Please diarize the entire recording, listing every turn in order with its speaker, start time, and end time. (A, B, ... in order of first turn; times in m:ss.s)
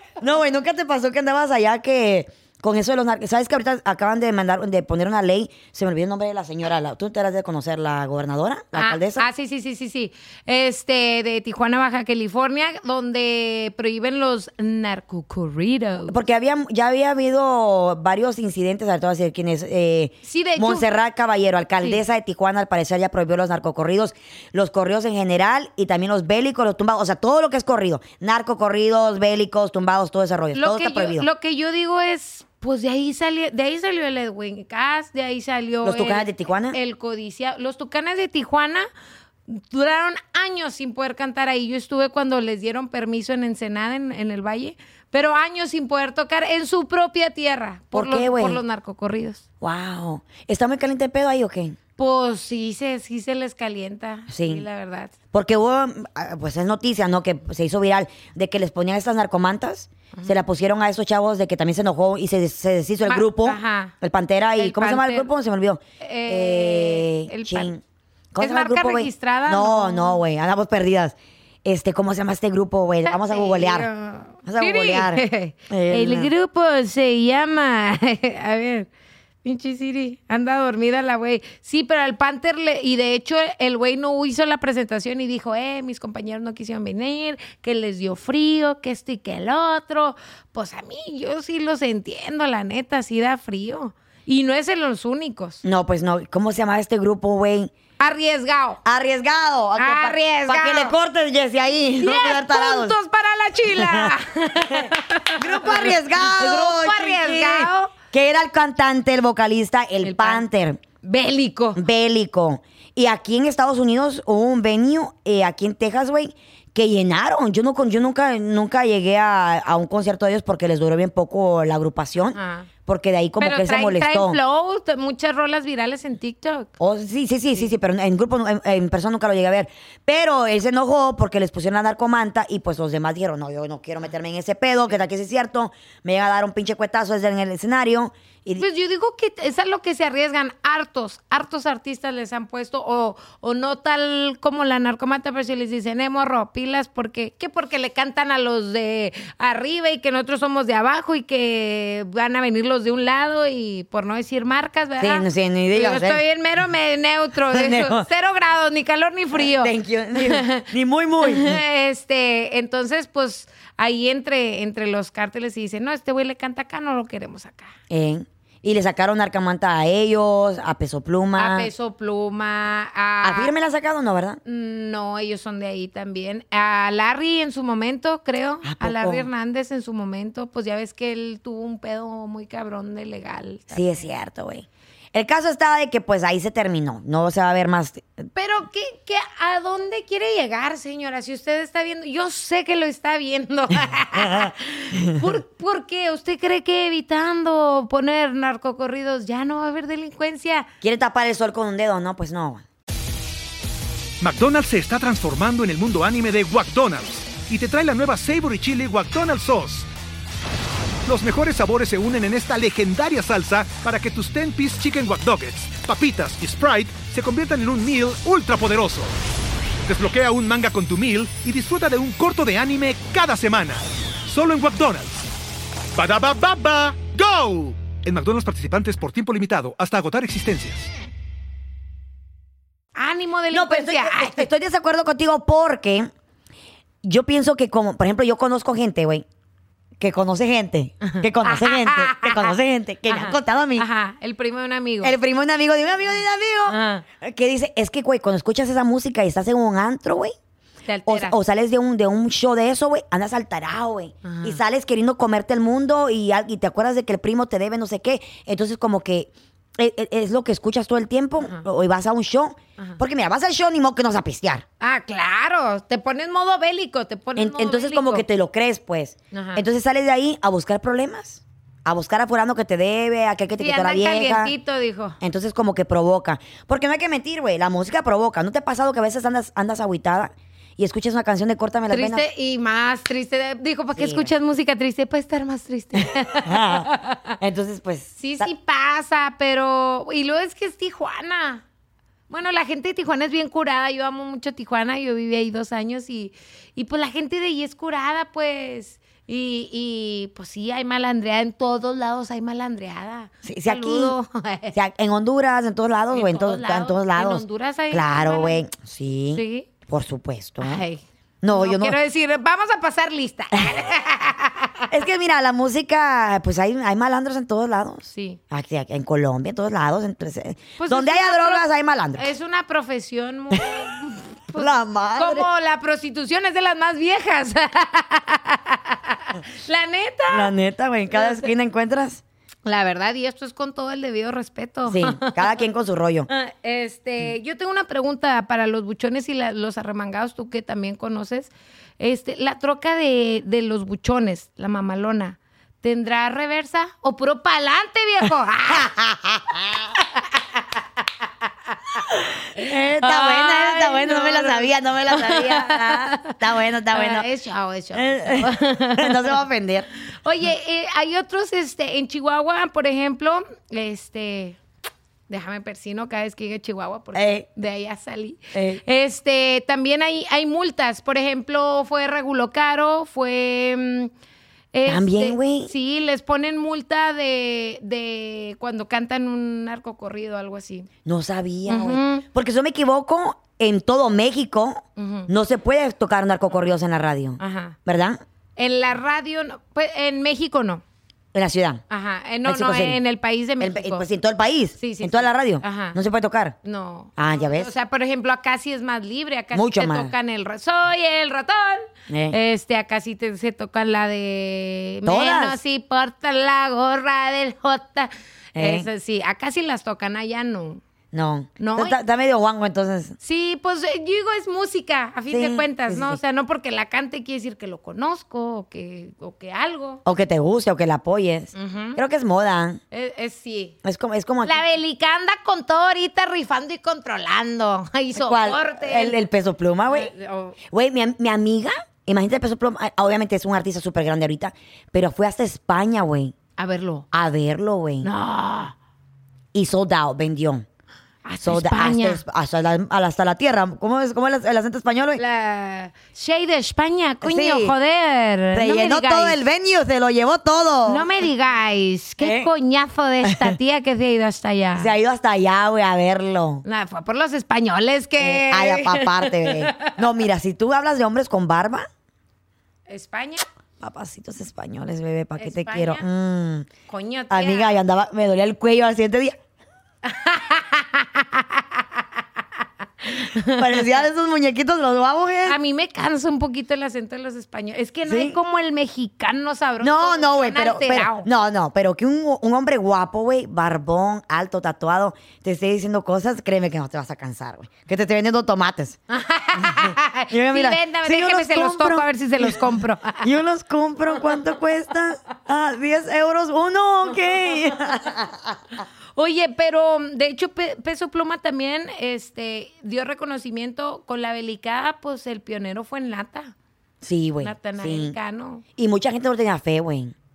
0:00.2-0:09.3 A
0:08.7-0:16.2 B
0:16.1-0:31.2 A
0:20.2-0:20.9 B
0:30.5-0:38.8 B
0:35.8-0:36.8 A
0:39.5-0:49.4 B
0:47.9-0:48.6 A
0:49.6-0:51.8 A
0:52.0-0:55.1 B
0:54.3-0:54.6 A
0:55.3-1:07.8 A
1:03.0-1:03.9 B
1:04.6-1:05.3 B
1:06.0-1:07.7 B
1:08.3-1:13.9 A
1:08.4-1:10.2 B
1:13.0-1:18.9 B
1:14.4-1:16.3 A
1:19.4-1:35.6 B
1:35.6-1:37.7 A
1:38.0-1:38.8 B
1:38.8-1:43.0 A
1:39.8-1:40.9 B
1:42.0-1:47.9 B
1:43.7-1:44.1 A
1:44.6-1:50.8 A
1:50.0-1:50.4 B
1:51.0-1:51.8 B
1:51.7-2:04.4 A
2:02.3-2:02.7 B
2:03.4-2:06.7 B
2:06.8-2:18.6 A
2:18.6-2:40.7 B
2:35.0-2:36.2 A
2:37.5-2:38.0 A
2:39.3-2:41.6 A
2:41.2-2:47.7 B
2:47.9-2:51.7 A
2:51.4-2:53.5 B
2:53.2-2:54.4 A
2:54.4-3:03.9 B
2:58.6-2:59.3 A
3:03.7-3:08.3 A
3:08.3-3:20.7 B
3:14.1-3:15.2 A
3:20.8-3:22.6 A
3:24.2-3:29.9 C
3:31.0-3:39.1 C
3:39.8-3:45.2 C
3:45.9-3:50.9 C
3:53.0-3:54.5 B
3:53.5-3:56.1 A
3:57.0-3:59.2 A
4:00.0-4:03.8 A
4:01.0-4:02.6 B
4:03.1-4:05.1 B
4:05.0-4:10.3 A
4:06.7-4:07.0 B
4:10.9-4:11.4 B
4:11.0-4:24.6 A
4:14.2-4:14.6 B
4:21.4-4:21.6 B
4:24.8-4:28.2 B
4:27.4-4:34.5 A
4:29.3-4:29.6 B
4:33.6-4:35.2 B
4:35.2-4:42.2 A
4:41.9-4:47.3 B
4:43.9-4:44.3 A
4:46.4-4:48.5 A
4:48.2-4:51.6 B
4:52.3-5:04.8 B
5:03.4-5:04.2 A
5:04.7-5:10.8 A
5:06.1-5:08.6 B
5:09.3-5:09.7 B
5:10.6-5:14.9 B
5:11.4-5:12.0 A
5:14.9-5:22.3 A
5:18.1-5:18.4 B
5:20.8-5:30.5 B
5:24.5-5:25.5 A
5:30.3-5:32.2 A
5:31.1-5:31.5 B
5:32.6-5:35.6 B
5:34.9-5:36.3 A
5:36.3-5:48.9 B
5:48.7-5:49.8 A
5:50.0-5:50.8 B
5:51.7-5:52.0 B
5:52.1-5:57.2 A
5:52.6-5:56.4 B
5:56.9-5:59.4 B
5:57.9-5:59.9 A
6:00.2-6:04.6 B
6:05.3-6:14.1 B
6:07.1-6:07.4 A
6:08.5-6:08.8 A
6:14.7-6:20.9 B
6:14.8-6:15.7 A
6:21.0-6:28.2 A
6:21.7-6:22.2 B
6:25.0-6:25.3 B
6:27.4-6:27.8 B
6:28.6-6:30.8 B
6:31.3-6:31.8 A
6:31.9-6:34.0 B
6:32.4-6:33.0 A
6:33.6-6:36.6 A
6:34.8-6:36.0 B
6:36.6-6:50.8 B
6:37.2-6:37.7 A
6:39.5-6:40.1 A
6:42.1-6:42.4 A
6:45.0-6:45.6 A
6:48.6-6:48.9 A
6:51.1-6:53.2 A
6:51.6-6:52.0 B
6:53.2-7:00.0 B
6:55.3-6:56.2 A
7:00.0-7:02.8 A
7:01.5-7:02.0 B
7:02.9-7:03.8 B
7:03.8-7:04.6 A
7:04.4-7:09.2 B
7:08.1-7:10.1 A
7:09.9-7:10.6 B
7:10.7-7:16.3 A
7:16.6-7:17.0 B
7:17.1-7:18.1 A
7:18.0-7:18.7 B
7:19.5-7:20.6 A
7:21.2-7:22.2 B
7:21.4-7:25.2 A
7:25.2-7:29.4 B
7:27.2-7:27.7 A
7:28.5-7:31.1 A
7:30.9-7:34.9 B
7:32.2-7:32.5 A
7:33.2-7:33.5 A
7:34.8-7:36.6 A
7:36.6-7:40.0 B
7:38.2-7:41.9 A
7:42.9-7:43.4 B
7:43.8-7:46.7 A
7:45.4-7:46.0 B
7:46.9-7:47.7 B
7:47.3-7:49.4 A
7:50.0-7:52.2 B
7:53.0-7:53.9 B
7:53.5-7:55.6 A
7:55.4-8:01.3 B
7:58.0-7:58.4 A
7:59.8-8:09.0 A
8:09.1-8:13.3 B
8:09.6-8:18.8 A
8:19.2-8:26.5 B
8:27.0-8:28.2 A
8:27.4-8:28.6 B
8:28.8-8:30.1 A